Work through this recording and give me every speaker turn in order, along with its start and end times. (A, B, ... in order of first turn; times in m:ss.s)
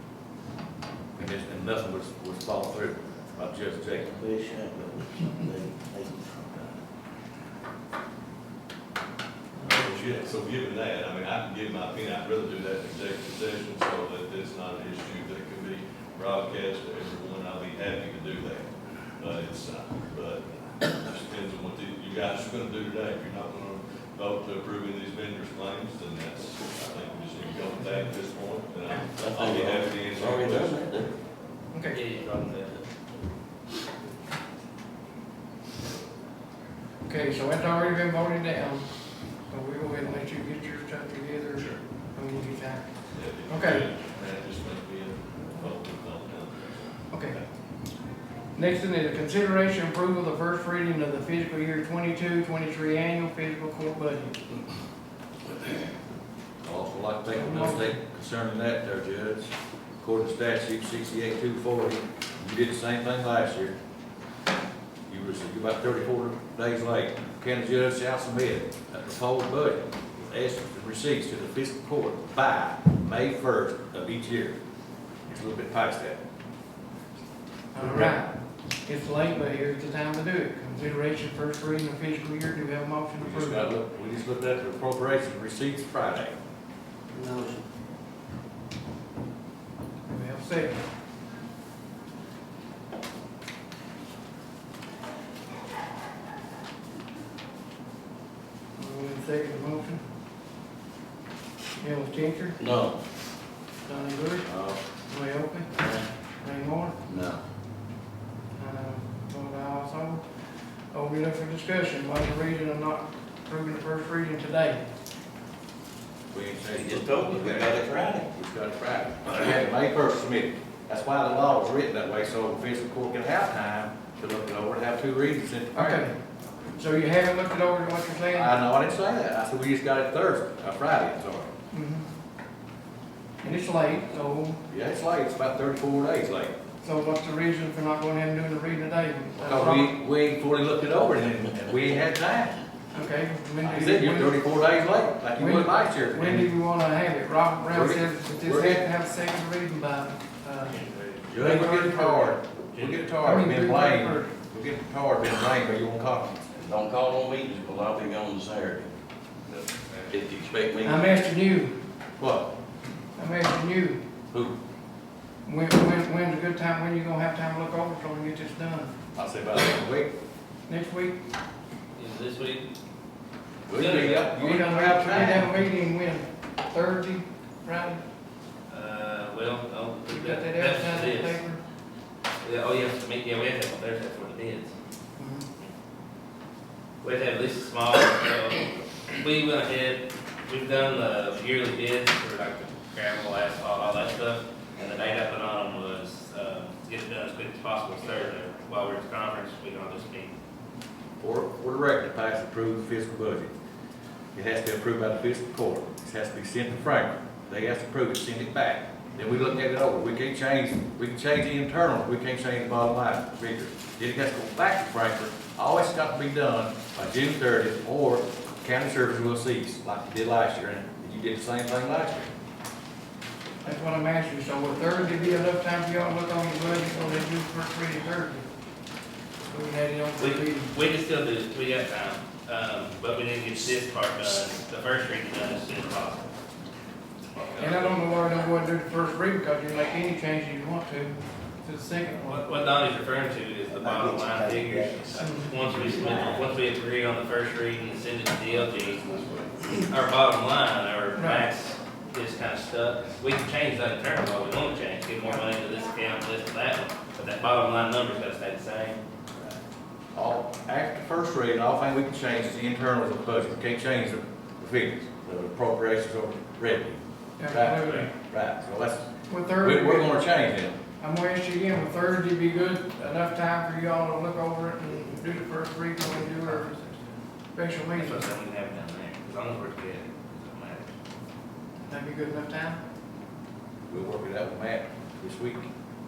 0:01.2-0:04.1 A
0:04.0-0:06.7 B
0:09.6-0:31.0 C
0:29.2-0:31.1 B
0:31.7-0:32.0 D
0:31.9-0:32.8 E
0:37.0-0:43.8 D
0:43.1-0:47.4 C
0:47.1-0:47.4 D
0:48.5-0:54.4 D
0:56.6-0:59.5 A
0:57.3-0:57.9 D
1:00.0-1:03.8 A
1:05.1-1:14.6 A
1:15.3-1:16.2 A
1:17.7-1:23.7 D
1:23.2-1:26.3 A
1:27.1-1:27.6 B
1:30.1-1:30.8 D
1:38.8-1:40.0 D
1:41.8-1:42.6 D
1:42.6-1:43.0 B
1:43.8-1:44.5 D
1:44.5-1:44.8 B
1:45.1-1:45.7 D
1:45.8-1:46.0 B
1:46.4-1:47.0 D
1:47.1-1:47.4 B
1:48.6-1:50.2 D
1:50.9-1:54.8 D
1:56.3-2:06.0 A
1:56.7-1:58.2 B
2:05.8-2:06.2 D
2:06.7-2:08.6 D
2:08.3-2:11.5 A
2:11.7-2:12.1 D
2:13.4-2:14.6 D
2:14.7-2:16.5 A
2:16.8-2:19.9 D
2:19.4-2:22.6 A
2:22.9-2:30.8 D
2:23.6-2:26.5 A
2:27.7-2:28.9 A
2:30.7-2:31.2 E
2:31.3-2:36.4 A
2:31.4-2:32.4 D
2:32.7-2:33.1 E
2:33.2-2:34.3 D
2:36.5-2:38.9 B
2:40.1-2:41.2 B
2:40.8-2:41.8 D
2:42.2-2:42.5 A
2:43.2-2:44.0 D
2:45.4-2:48.9 D
2:49.2-2:50.1 A
2:50.7-2:51.2 D
2:52.0-2:52.7 E
2:53.7-2:55.6 A
2:53.7-2:54.6 E
2:54.3-2:58.0 D
2:58.7-3:01.4 E
3:00.1-3:01.6 D
3:02.4-3:04.7 E
3:05.2-3:05.4 D
3:07.0-3:20.4 E
3:21.2-3:23.5 A
3:24.3-3:42.3 A
3:43.6-3:48.4 D
3:49.5-3:50.7 D
3:50.2-3:56.3 E
3:57.6-4:02.5 D
4:02.2-4:19.0 E
4:03.8-4:04.5 A
4:05.2-4:05.6 D
4:11.2-4:11.5 D
4:20.2-4:30.8 A
4:27.4-4:28.1 D
4:29.3-4:30.2 D
4:31.0-4:36.8 D
4:36.5-4:37.1 E
4:37.5-4:38.3 D
4:37.9-4:40.9 E
4:41.8-4:42.8 D
4:43.9-4:45.7 A